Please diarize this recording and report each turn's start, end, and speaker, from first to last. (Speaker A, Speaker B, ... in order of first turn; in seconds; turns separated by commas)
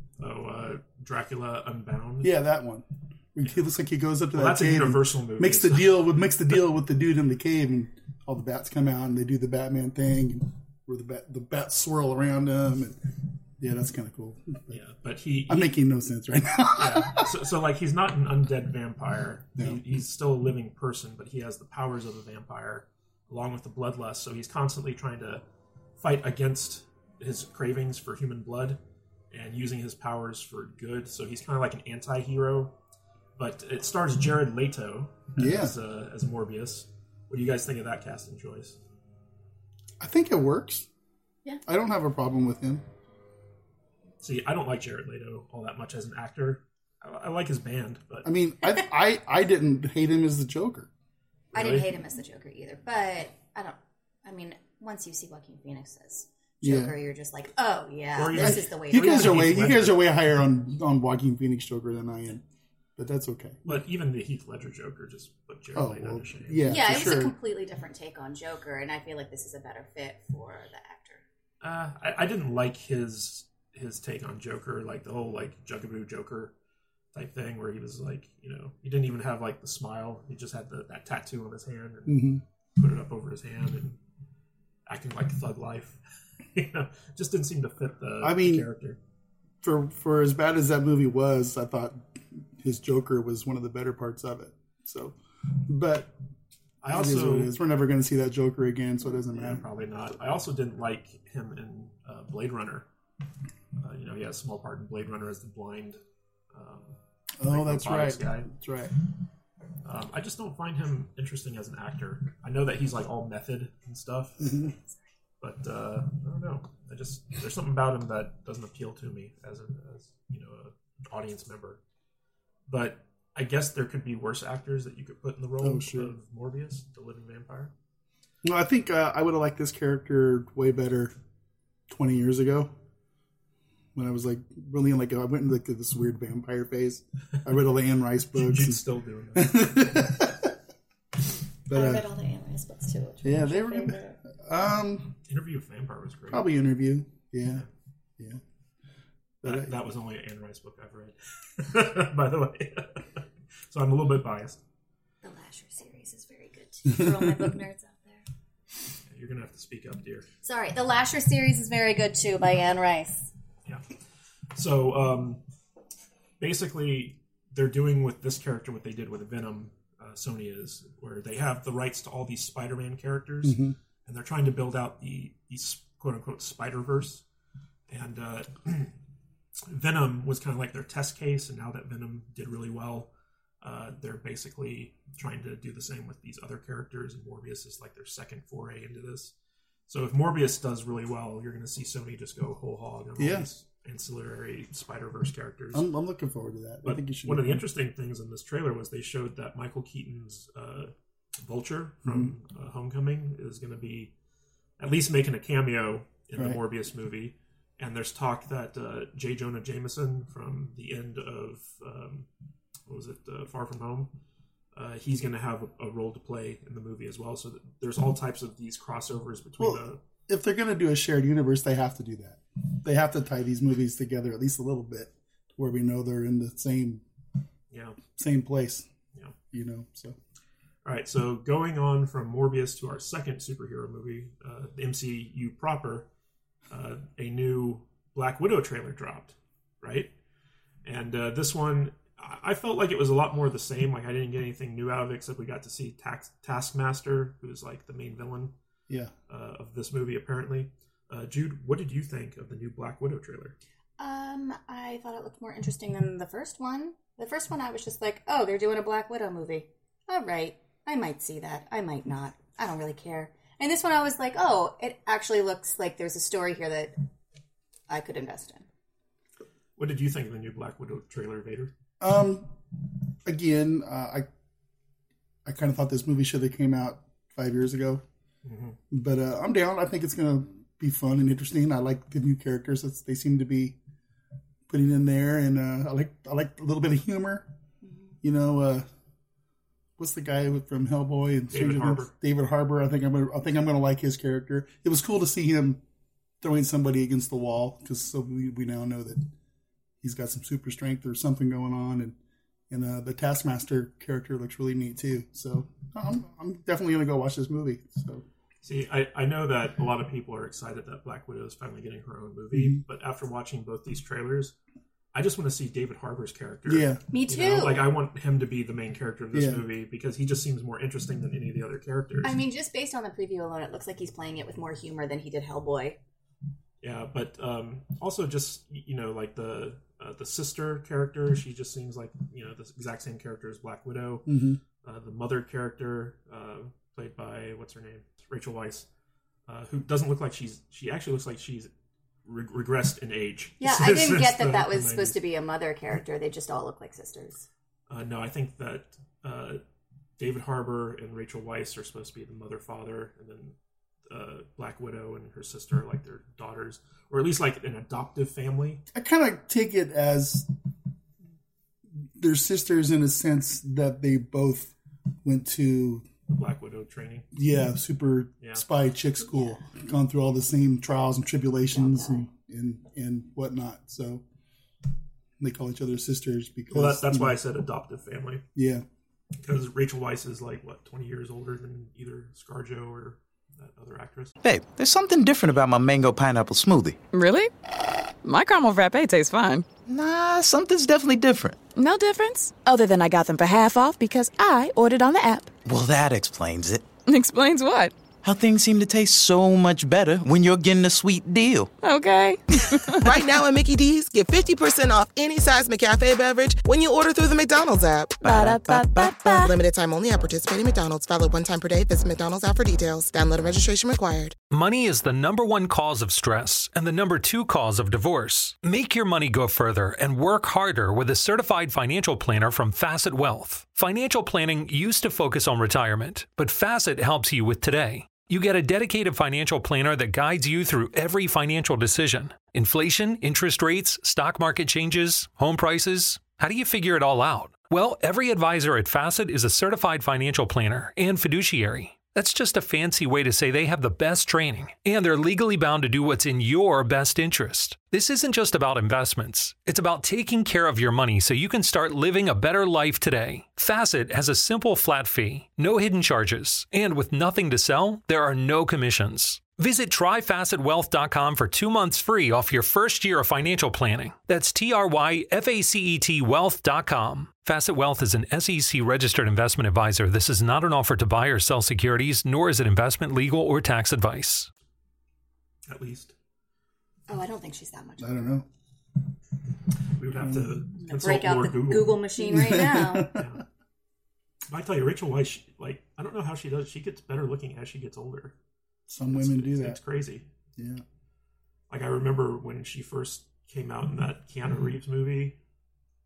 Speaker A: 0.2-2.3, Speaker B: 2.2-14.8, Speaker A: 4.3-6.0, Speaker A: 14.7-15.7, Speaker B: 15.5-17.3, Speaker A: 16.8-25.4, Speaker B: 19.6-19.8, Speaker A: 26.0-28.8, Speaker A: 29.3-32.8, Speaker A: 33.4-38.8, Speaker B: 35.3-35.7, Speaker B: 40.0-40.9, Speaker B: 41.6-42.8, Speaker A: 44.2-48.2, Speaker B: 48.2-50.9, Speaker C: 51.5-59.4, Speaker A: 51.5-51.9, Speaker B: 56.6-56.9, Speaker A: 58.1-60.1, Speaker B: 58.3-62.4, Speaker B: 63.0-63.8, Speaker A: 63.6-66.9, Speaker B: 65.7-67.3, Speaker C: 66.6-71.2, Speaker A: 71.6-76.5, Speaker A: 77.1-84.0, Speaker B: 82.1-82.4, Speaker A: 84.9-86.0, Speaker A: 86.5-89.0, Speaker B: 88.2-88.7, Speaker B: 89.6-96.1, Speaker A: 96.8-97.5, Speaker B: 96.9-99.7, Speaker A: 99.2-102.9, Speaker A: 103.8-106.0, Speaker A: 106.5-108.5, Speaker B: 107.4-108.9, Speaker A: 109.8-114.7, Speaker A: 115.4-121.8, Speaker A: 122.7-127.7, Speaker B: 125.6-126.1, Speaker B: 128.4-131.1, Speaker B: 131.9-132.7, Speaker B: 133.9-138.8, Speaker A: 138.3-140.3, Speaker B: 139.3-140.5, Speaker B: 141.7-142.1, Speaker C: 141.7-144.2, Speaker B: 143.2-145.2, Speaker A: 145.2-146.5, Speaker B: 146.3-147.6, Speaker B: 149.4-149.7, Speaker A: 149.4-154.6, Speaker C: 155.2-158.2, Speaker A: 159.1-160.3, Speaker C: 160.4-163.3, Speaker A: 163.7-163.9, Speaker A: 164.5-165.4, Speaker A: 166.4-177.2, Speaker B: 173.4-173.8, Speaker A: 177.9-179.0, Speaker A: 179.7-189.3, Speaker A: 189.9-195.8, Speaker B: 193.2-193.5, Speaker B: 195.7-197.6, Speaker A: 196.8-204.1, Speaker B: 202.0-202.3, Speaker A: 204.8-212.3, Speaker A: 212.9-214.1, Speaker A: 214.7-220.0, Speaker B: 219.6-227.0, Speaker A: 227.7-228.0, Speaker B: 228.2-228.8, Speaker B: 229.5-230.2, Speaker A: 230.8-236.1, Speaker A: 236.7-240.1, Speaker A: 240.8-248.5, Speaker A: 249.3-253.6, Speaker C: 254.0-266.9, Speaker C: 267.9-268.7, Speaker A: 269.8-271.7, Speaker B: 272.0-274.3, Speaker B: 275.4-278.0, Speaker A: 278.4-278.8, Speaker B: 278.9-283.8, Speaker B: 284.7-287.5, Speaker C: 287.8-288.1, Speaker B: 288.2-288.9, Speaker B: 290.0-295.8, Speaker A: 291.5-292.1, Speaker B: 296.4-299.3, Speaker B: 300.0-302.1, Speaker B: 302.7-308.2, Speaker A: 308.6-314.5, Speaker B: 312.5-312.8, Speaker A: 315.1-322.4, Speaker B: 316.6-317.0, Speaker C: 317.1-317.9, Speaker B: 319.3-319.6, Speaker C: 322.2-326.0, Speaker A: 326.8-334.3, Speaker B: 334.2-334.6, Speaker A: 334.8-338.9, Speaker A: 339.5-341.7, Speaker A: 342.2-345.2, Speaker C: 343.6-347.4, Speaker A: 347.9-349.6, Speaker A: 350.2-353.5, Speaker A: 354.1-358.8, Speaker B: 358.9-360.5, Speaker B: 362.0-366.1, Speaker A: 366.3-367.3, Speaker B: 367.3-374.2, Speaker A: 368.4-368.6, Speaker C: 369.4-369.6, Speaker C: 371.7-372.3, Speaker B: 375.4-377.4, Speaker A: 376.7-378.4, Speaker B: 378.5-378.9, Speaker A: 379.4-384.3, Speaker D: 384.4-387.0, Speaker E: 387.1-387.5, Speaker E: 388.2-389.7, Speaker D: 389.9-391.6, Speaker E: 391.7-395.5, Speaker D: 395.6-396.9, Speaker E: 397.1-397.9, Speaker D: 398.2-401.7, Speaker E: 401.8-402.8, Speaker F: 403.0-414.4, Speaker E: 408.2-409.5, Speaker D: 408.5-408.8, Speaker G: 414.5-474.5, Speaker A: 475.7-476.1, Speaker C: 477.1-478.3, Speaker B: 478.0-478.4, Speaker A: 479.9-482.0, Speaker B: 480.1-480.6, Speaker C: 480.8-483.1, Speaker B: 482.2-483.4, Speaker A: 483.1-483.4, Speaker A: 484.5-488.4, Speaker B: 488.9-489.8, Speaker A: 489.1-490.2, Speaker B: 490.6-490.8, Speaker A: 491.7-495.4